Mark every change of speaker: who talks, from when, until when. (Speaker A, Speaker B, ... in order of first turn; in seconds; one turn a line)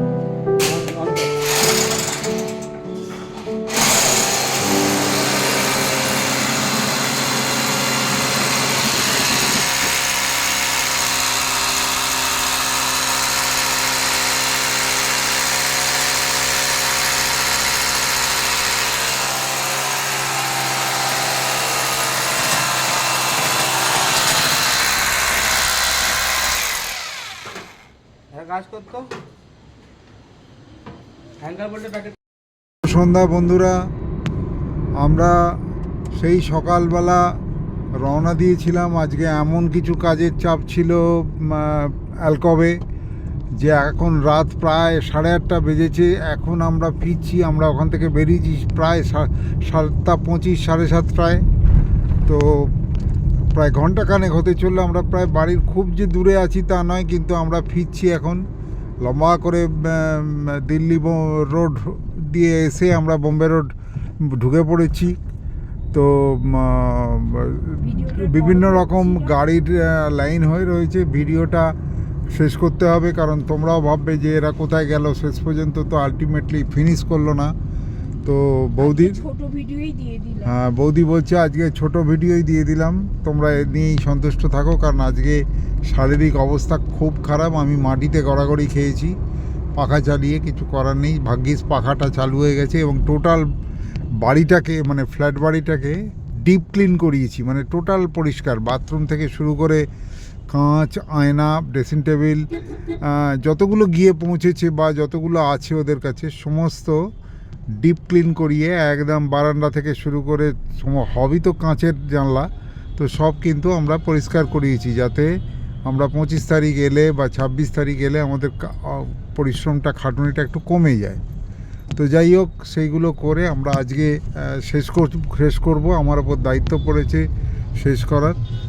Speaker A: 0.6-1.3
Speaker A: 28.3-29.1
Speaker A: 31.4-32.2
Speaker B: 32.8-33.8
Speaker B: 35.0-35.6
Speaker B: 36.1-37.3
Speaker B: 38.0-42.8
Speaker B: 43.6-51.4
Speaker B: 52.3-52.7
Speaker B: 53.5-58.4
Speaker B: 59.0-63.7
Speaker B: 64.2-65.2
Speaker B: 65.9-71.7
Speaker C: 67.8-69.3
Speaker B: 72.3-77.5
Speaker B: 78.2-79.2
Speaker C: 78.8-80.6
Speaker B: 80.5-89.1
Speaker B: 89.8-93.5
Speaker B: 94.2-99.8
Speaker B: 100.5-102.5
Speaker B: 103.0-107.0
Speaker B: 107.8-115.3
Speaker B: 115.9-121.2
Speaker B: 121.9-127.2
Speaker B: 127.8-128.4